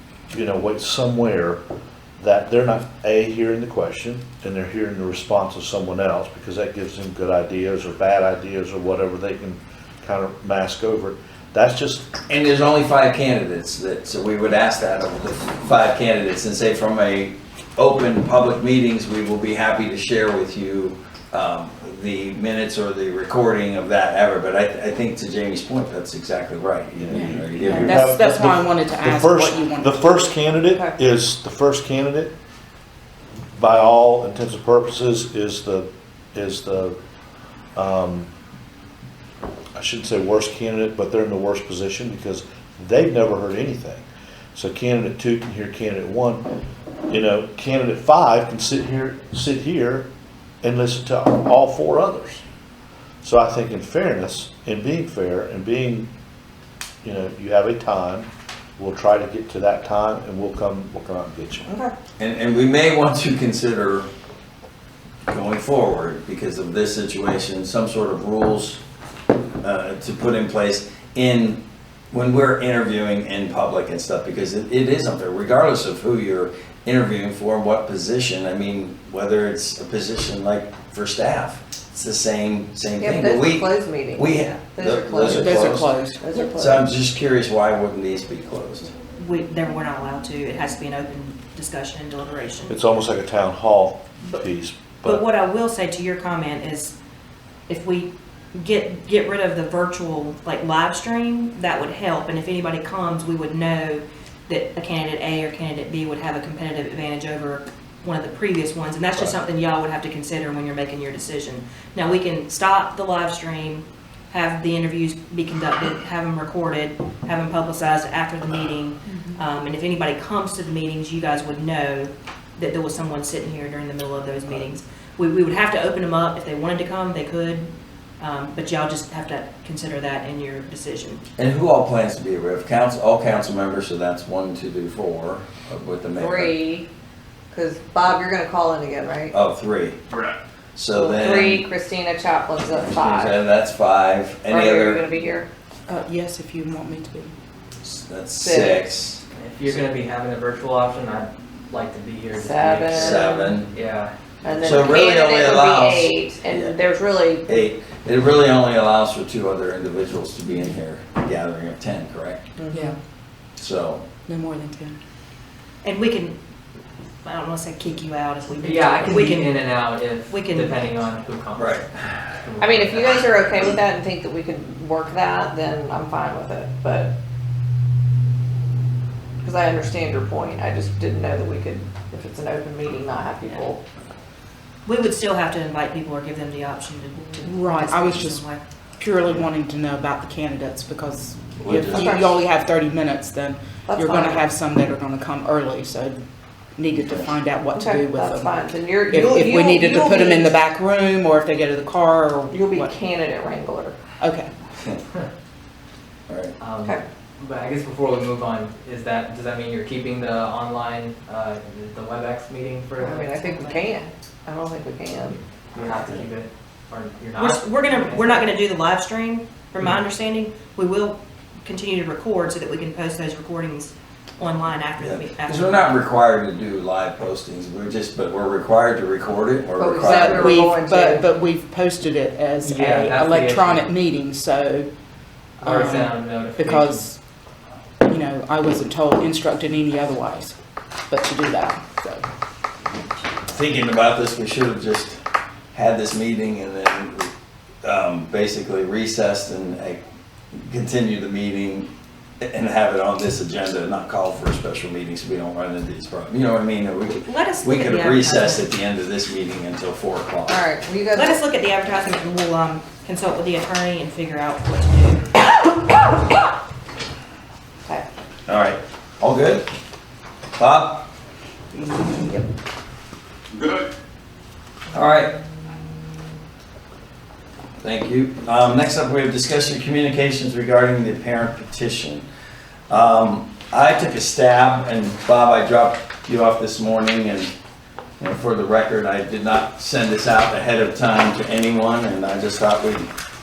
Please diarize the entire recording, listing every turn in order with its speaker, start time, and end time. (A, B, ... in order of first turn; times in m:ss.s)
0:00.3-0:01.6 A
0:02.2-0:12.1 A
0:12.3-0:28.0 B
0:27.0-0:32.3 A
0:27.1-0:30.3 C
0:30.7-0:31.0 D
0:33.6-0:37.0 A
0:37.8-0:38.3 A
0:39.7-0:46.5 A
0:47.1-0:50.1 A
0:50.6-0:52.4 A
0:53.2-0:56.1 A
0:57.0-1:01.7 A
1:01.6-1:01.9 D
1:02.2-1:04.1 B
1:05.3-1:08.8 B
1:09.6-1:25.9 B
1:23.0-1:26.9 D
1:25.2-1:26.2 C
1:26.5-1:28.9 B
1:29.2-1:32.7 E
1:32.7-1:35.2 A
1:35.0-1:36.9 E
1:37.7-2:07.7 E
2:08.2-2:11.2 E
2:11.4-2:16.5 B
2:16.2-2:16.9 D
2:17.5-2:19.3 D
2:19.3-2:20.2 B
2:20.8-2:21.6 B
2:20.9-2:23.4 D
2:22.9-2:25.1 B
2:24.5-2:25.5 D
2:25.9-2:27.3 C
2:27.8-2:29.2 B
2:28.4-2:28.8 D
2:29.3-2:34.9 F
2:32.3-2:33.5 D
2:32.9-2:33.7 B
2:34.4-2:37.6 D
2:34.6-2:36.8 B
2:37.4-2:42.4 B
2:42.6-2:42.9 D
2:43.6-2:44.0 B
2:44.2-2:45.0 C
2:45.8-2:46.4 E
2:47.2-2:51.0 E
2:48.6-2:53.3 F
2:51.6-2:51.8 B
2:52.6-2:57.1 D
2:59.4-3:03.8 D
3:04.8-3:08.6 E
3:07.4-3:08.4 C
3:09.0-3:16.2 C
3:11.6-3:12.1 B
3:11.9-3:12.4 D
3:13.9-3:14.4 D
3:16.8-3:22.9 C
3:17.7-3:20.5 D
3:22.5-3:24.0 D
3:24.2-3:24.5 C
3:26.3-3:26.5 B
3:26.6-3:33.9 F
3:33.0-3:35.4 D
3:35.7-3:38.4 F
3:37.3-3:46.0 E
3:45.0-3:50.6 B
3:49.8-3:51.3 D
3:50.0-3:54.9 C
3:52.6-3:53.9 F
3:55.6-3:57.0 F
3:55.6-3:57.2 C
3:58.0-4:00.6 C
4:01.1-4:02.2 C
4:03.5-4:05.2 B
4:05.7-4:07.3 B
4:07.8-4:11.9 B
4:12.4-4:20.6 B
4:17.2-4:18.6 E
4:20.5-4:21.4 D
4:21.1-4:25.3 E
4:28.5-4:29.6 B
4:30.6-4:31.1 B
4:34.9-4:35.4 B
4:37.8-4:42.3 B
4:42.9-4:47.5 B
4:48.2-4:53.1 B